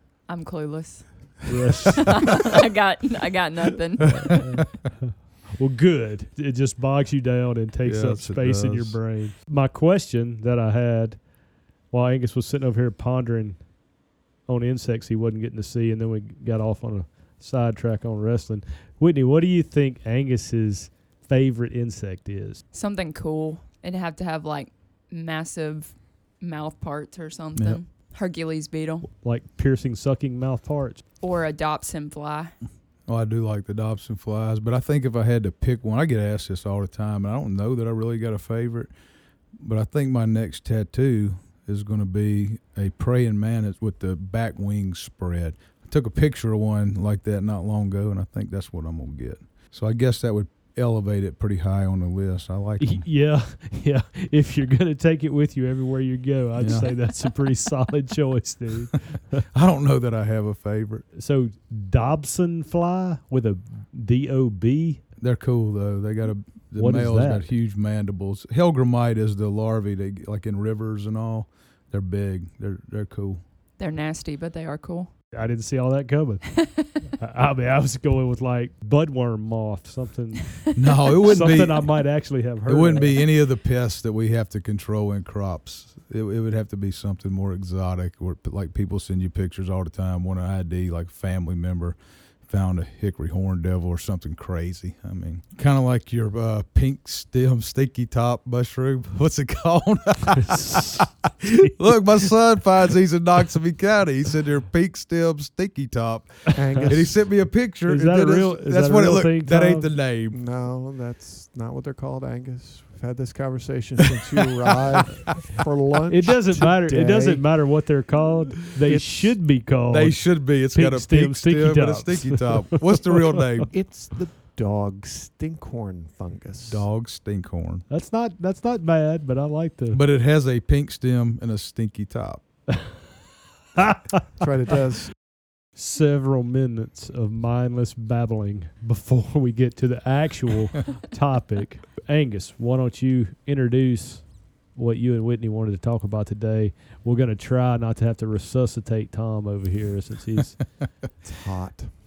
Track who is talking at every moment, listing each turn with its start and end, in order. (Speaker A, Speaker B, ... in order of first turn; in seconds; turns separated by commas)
Speaker A: 0.3-1.5, Speaker B: 1.5-2.2, Speaker A: 2.2-4.4, Speaker B: 4.0-11.3, Speaker C: 7.8-9.0, Speaker B: 11.9-13.7, Speaker B: 14.4-22.6, Speaker A: 22.7-29.1, Speaker C: 27.6-27.8, Speaker B: 29.0-31.0, Speaker A: 31.2-32.5, Speaker C: 33.1-38.9, Speaker C: 39.6-53.0, Speaker B: 52.8-59.4, Speaker C: 56.6-56.9, Speaker C: 59.5-61.1, Speaker B: 61.1-65.0, Speaker C: 65.2-73.4, Speaker B: 66.8-67.5, Speaker A: 73.8-75.1, Speaker B: 75.3-76.5, Speaker A: 76.8-77.0, Speaker B: 77.2-80.6, Speaker C: 80.7-82.0, Speaker B: 81.3-83.2, Speaker C: 82.7-92.0, Speaker C: 92.5-110.4, Speaker B: 100.4-101.0, Speaker D: 106.5-107.2, Speaker B: 107.9-109.9, Speaker D: 110.3-117.5, Speaker B: 116.1-123.1, Speaker D: 118.8-119.4, Speaker C: 119.9-123.7, Speaker D: 123.7-126.8, Speaker C: 126.7-127.9, Speaker B: 127.9-130.0, Speaker C: 129.9-132.4, Speaker B: 133.8-134.2, Speaker D: 134.4-135.1, Speaker B: 135.8-150.6, Speaker D: 151.2-151.9